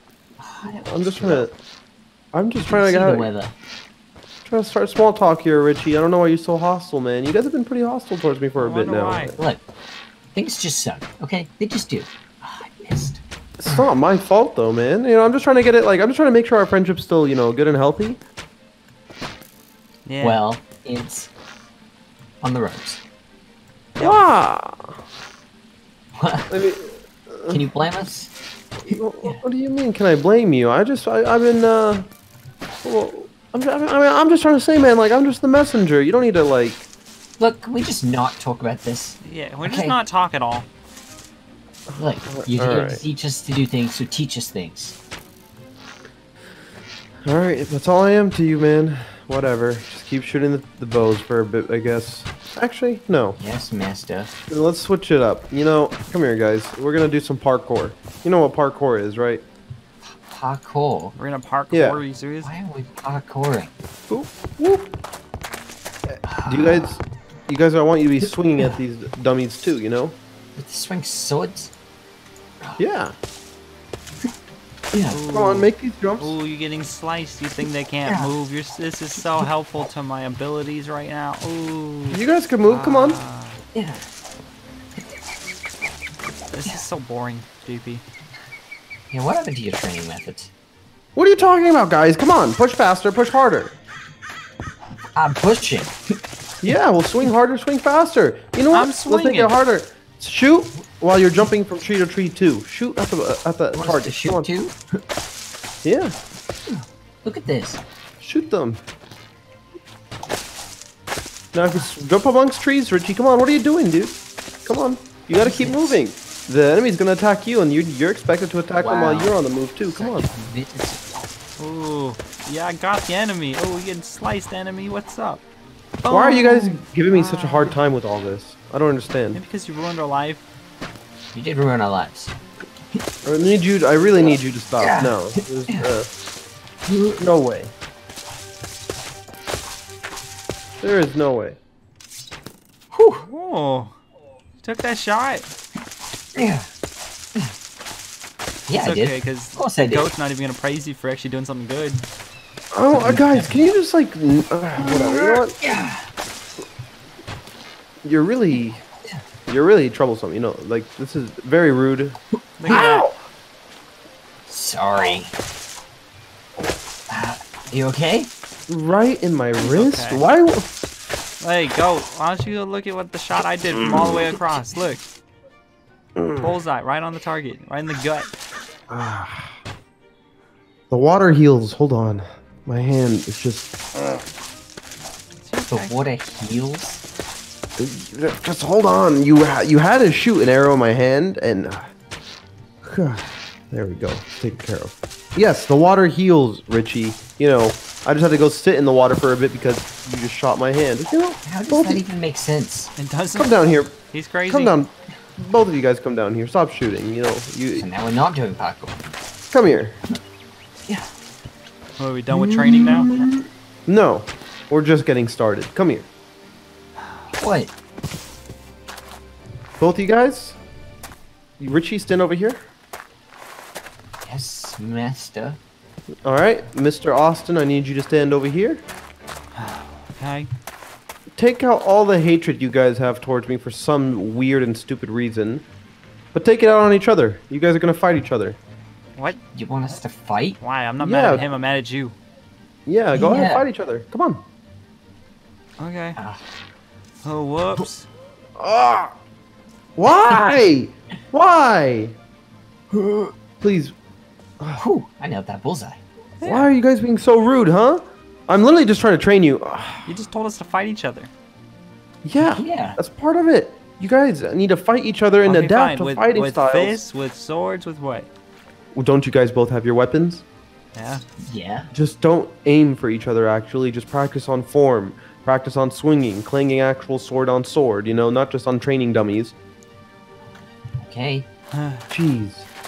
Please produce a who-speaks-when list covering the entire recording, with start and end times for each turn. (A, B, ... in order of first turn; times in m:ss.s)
0:00.4-0:01.5 A
0:00.9-0:01.5 B
0:02.3-0:03.3 B
0:02.6-0:03.5 A
0:04.4-0:09.4 B
0:08.6-0:09.4 C
0:10.3-0:13.8 A
0:13.6-0:18.2 B
0:20.0-0:20.4 C
0:20.2-0:21.3 A
0:22.4-0:23.0 A
0:24.0-0:25.0 B
0:26.2-0:26.5 A
0:26.5-0:27.6 B
0:27.5-0:28.3 A
0:28.9-0:32.1 B
0:28.9-0:29.4 A
0:32.8-0:36.9 B
0:37.4-0:40.0 A
0:39.2-0:40.7 C
0:41.9-0:43.0 B
0:42.0-0:45.0 A
0:47.2-0:53.4 B
0:53.4-0:54.3 A
0:54.5-0:59.4 B
1:00.0-1:01.1 A
1:01.2-1:02.5 C
1:01.7-1:02.0 B
1:02.4-1:03.7 A
1:04.1-1:04.9 B
1:06.1-1:10.2 B
1:06.2-1:07.0 A
1:10.6-1:11.7 A
1:12.8-1:13.2 B
1:14.9-1:15.2 A
1:15.1-1:23.6 C
1:15.2-1:16.3 B
1:19.2-1:19.5 A
1:22.1-1:23.2 B
1:23.7-1:24.0 A
1:26.5-1:28.0 C
1:29.1-1:30.5 A
1:31.2-1:33.8 B
1:35.2-1:35.9 A
1:36.6-1:44.5 B
1:38.7-1:39.5 C
1:43.7-1:45.0 A
1:45.8-1:46.1 B
1:46.7-1:47.8 A
1:48.2-1:48.8 B
1:51.5-2:00.3 B
1:55.4-1:56.0 A
1:58.8-2:01.2 A
2:01.6-2:05.4 C
2:06.0-2:07.8 C
2:06.1-2:09.4 B
2:09.3-2:10.4 C
2:11.3-2:12.3 A
2:13.2-2:16.1 B
2:14.2-2:15.9 A
2:16.9-2:17.2 A
2:17.2-2:17.7 B
2:20.8-2:21.6 B
2:22.9-2:23.2 A
2:23.2-2:23.9 C
2:24.6-2:25.5 C
2:26.3-2:26.7 A
2:28.7-2:30.1 A
2:28.7-2:32.0 C
2:32.7-2:35.6 B
2:32.9-2:33.6 A
2:34.8-2:36.1 A
2:38.0-2:38.8 B
2:39.5-2:43.2 B
2:42.6-2:43.1 C
2:42.6-2:42.9 A
2:44.5-2:45.3 A
2:47.1-2:48.3 A
2:48.7-2:50.7 B
2:49.6-2:50.2 C
2:51.4-2:55.0 C
2:53.8-2:54.2 B
2:56.2-2:56.5 B
2:56.4-2:58.3 C
2:58.9-2:59.6 B
3:00.9-3:04.2 B
3:05.4-3:05.9 C
3:05.7-3:07.0 A
3:07.8-3:11.9 B
3:12.8-3:22.0 B
3:21.4-3:22.9 A
3:23.0-3:23.5 C
3:23.4-3:24.0 B
3:24.1-3:24.7 C
3:24.5-3:27.9 B
3:27.8-3:29.0 A
3:29.5-3:30.0 B
3:32.0-3:33.1 C
3:32.3-3:36.1 B
3:37.4-3:37.7 A
3:39.8-3:40.6 B
3:41.6-3:42.6 B
3:44.2-3:45.6 A
3:46.2-3:48.8 B
3:49.5-3:50.5 C
3:51.4-3:55.6 B
3:56.3-3:58.6 B
3:59.5-4:00.6 A
4:00.6-4:02.2 C
4:01.0-4:01.5 B
4:02.8-4:04.4 B
4:03.1-4:03.6 A
4:05.8-4:06.2 C
4:06.2-4:06.4 A
4:07.2-4:08.1 C
4:08.6-4:09.1 B
4:10.0-4:12.2 B
4:13.6-4:14.0 B
4:14.8-4:16.0 A
4:16.4-4:16.7 C
4:16.4-4:20.1 B
4:20.0-4:21.3 C
4:22.2-4:27.0 B
4:22.4-4:23.0 A
4:25.4-4:28.3 C
4:28.9-4:30.4 B
4:30.9-4:31.2 C
4:31.4-4:31.9 A
4:31.9-4:39.5 B
4:41.0-4:41.4 A
4:41.7-4:42.0 C
4:42.1-4:42.7 B